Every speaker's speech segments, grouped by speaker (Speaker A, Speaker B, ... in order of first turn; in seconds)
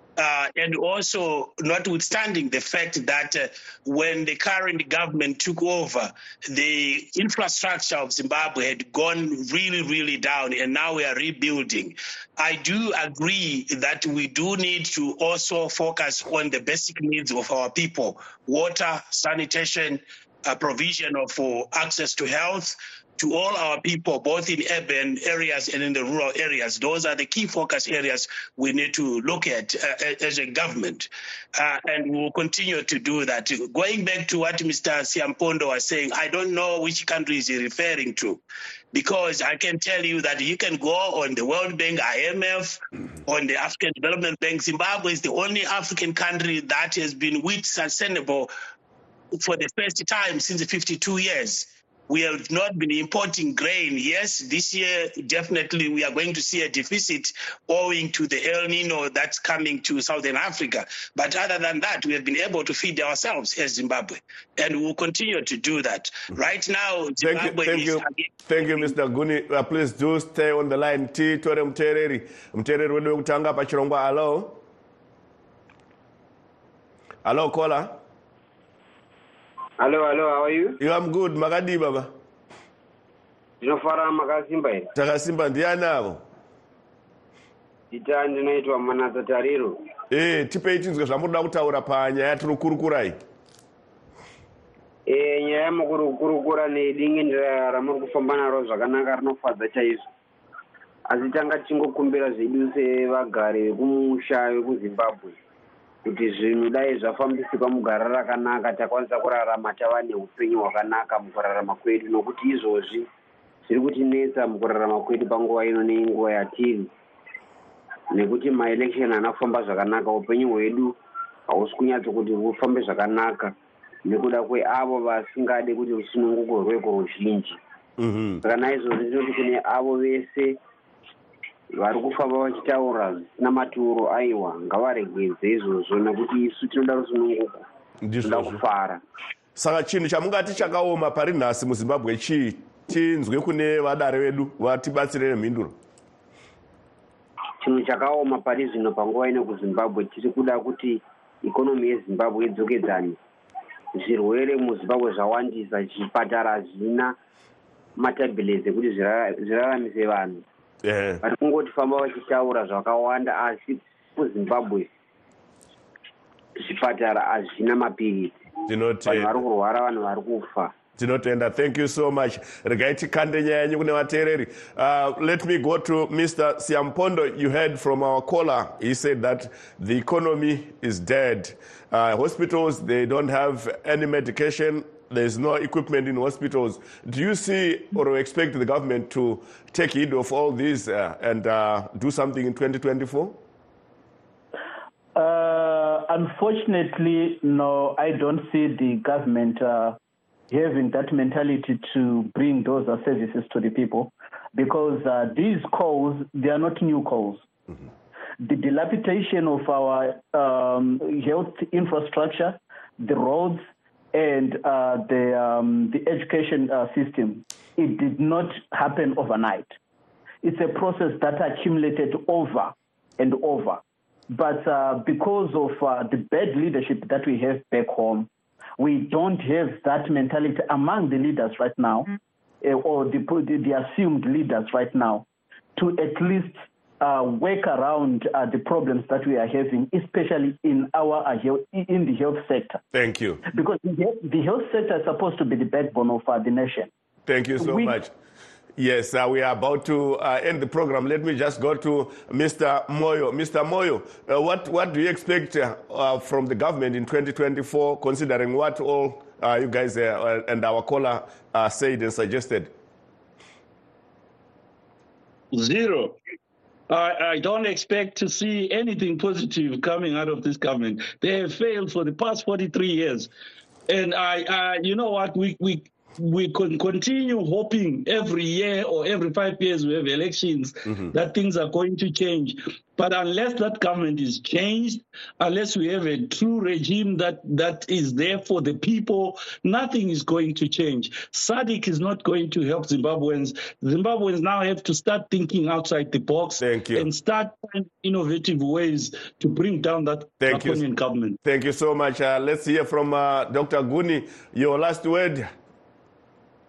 Speaker A: 0.2-38.4, 38.9-48.5, 49.3-69.0
Speaker B: 67.2-74.6, 77.2-78.0, 80.8-82.1, 85.0-86.2, 90.1-93.2, 128.0-128.4, 138.0-138.6, 139.6-145.8, 160.8-161.2, 168.7-169.4, 171.0-193.4, 242.9-243.4, 247.3-248.1, 248.8-262.7, 296.6-297.1, 300.4-300.8, 301.4-305.5
Speaker C: 79.8-80.8, 83.6-84.9, 87.9-89.8, 95.1-100.0, 101.1-105.4, 106.0-113.1, 113.7-116.9, 118.1-121.0, 121.5-123.5, 124.1-127.6, 128.4-130.6, 131.8-137.6, 138.2-139.0, 147.6-153.2, 153.9-157.1, 158.0-160.4, 161.2-164.9, 166.6-168.4, 169.1-170.7
Speaker D: 195.2-200.0, 200.5-207.4, 208.4-219.8, 220.4-232.1, 232.6-242.8, 243.5-246.9, 247.6-247.9
Speaker E: 265.5-266.2, 266.9-273.3, 273.9-301.4